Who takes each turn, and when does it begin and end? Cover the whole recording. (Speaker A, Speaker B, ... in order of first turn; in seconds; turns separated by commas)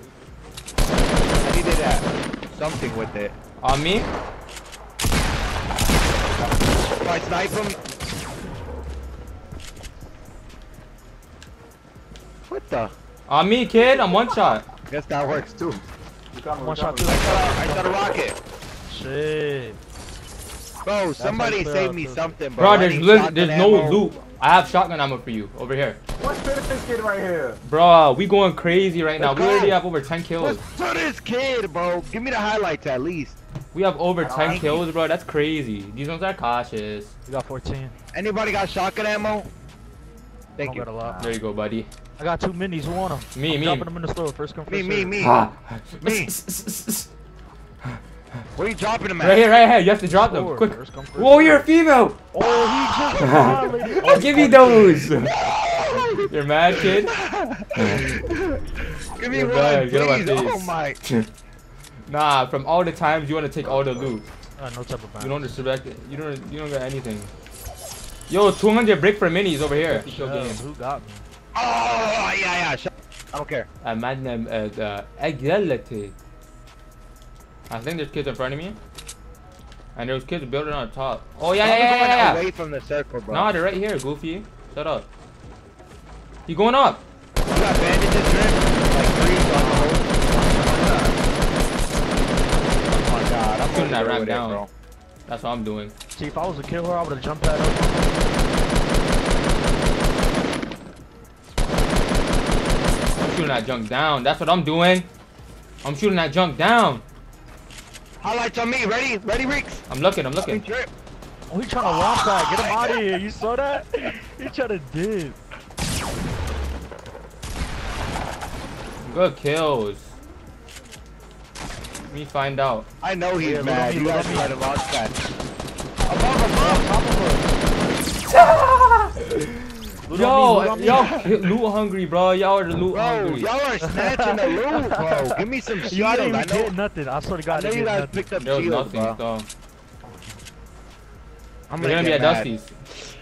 Speaker A: 1.4-3.3, Speaker B: 3.6-4.1, Speaker C: 6.1-7.1, Speaker A: 7.0-7.8, Speaker A: 12.5-12.9, Speaker B: 13.3-14.7, Speaker A: 14.9-15.8, Speaker C: 15.2-15.5, Speaker C: 16.3-17.5, Speaker D: 16.6-18.2, Speaker A: 17.1-18.4, Speaker D: 18.9-19.8, Speaker A: 20.8-24.1, Speaker D: 21.2-22.3, Speaker B: 22.6-26.0, Speaker C: 26.2-27.6, Speaker B: 27.6-30.6, Speaker A: 29.2-29.8, Speaker A: 30.4-33.4, Speaker B: 33.7-37.1, Speaker C: 34.2-34.8, Speaker A: 34.5-34.9, Speaker D: 37.3-37.9, Speaker A: 38.1-39.5, Speaker A: 40.6-40.9, Speaker D: 40.6-41.2, Speaker C: 41.0-41.4, Speaker B: 41.2-41.9, Speaker D: 42.2-45.2, Speaker B: 43.4-43.9, Speaker A: 44.7-45.4, Speaker B: 45.2-47.1, Speaker A: 46.0-46.3, Speaker A: 48.6-49.5, Speaker B: 49.2-52.2, Speaker D: 50.1-51.7, Speaker D: 52.3-55.3, Speaker A: 52.4-54.2, Speaker B: 53.2-55.3, Speaker A: 55.4-61.0, Speaker B: 56.3-57.1, Speaker B: 57.8-58.0, Speaker B: 59.3-61.3, Speaker B: 62.1-64.2, Speaker D: 64.6-65.6, Speaker B: 65.2-67.3, Speaker B: 68.3-70.6, Speaker D: 69.8-71.3, Speaker A: 71.5-73.7, Speaker B: 73.8-76.2, Speaker B: 77.7-78.8, Speaker B: 80.0-82.5, Speaker A: 81.6-83.5, Speaker B: 83.3-85.1, Speaker B: 86.5-87.0, Speaker C: 87.4-88.3, Speaker A: 87.5-91.1, Speaker D: 89.4-91.0, Speaker A: 92.9-94.7, Speaker B: 93.7-94.6, Speaker B: 95.3-95.9, Speaker D: 96.2-98.2, Speaker B: 103.2-105.1, Speaker B: 105.8-107.0, Speaker A: 108.2-109.8, Speaker B: 109.9-110.6, Speaker A: 110.4-110.9, Speaker D: 111.5-115.4, Speaker A: 111.8-113.0, Speaker B: 119.0-120.2, Speaker B: 122.1-122.9, Speaker A: 123.0-125.2, Speaker D: 123.4-124.5, Speaker A: 126.1-126.9, Speaker D: 126.6-127.6, Speaker B: 128.3-133.5, Speaker D: 130.1-131.1, Speaker A: 130.8-131.5, Speaker A: 132.9-136.7, Speaker D: 133.8-138.3, Speaker A: 137.5-139.2, Speaker B: 138.4-139.5, Speaker A: 141.7-142.5, Speaker B: 141.8-142.7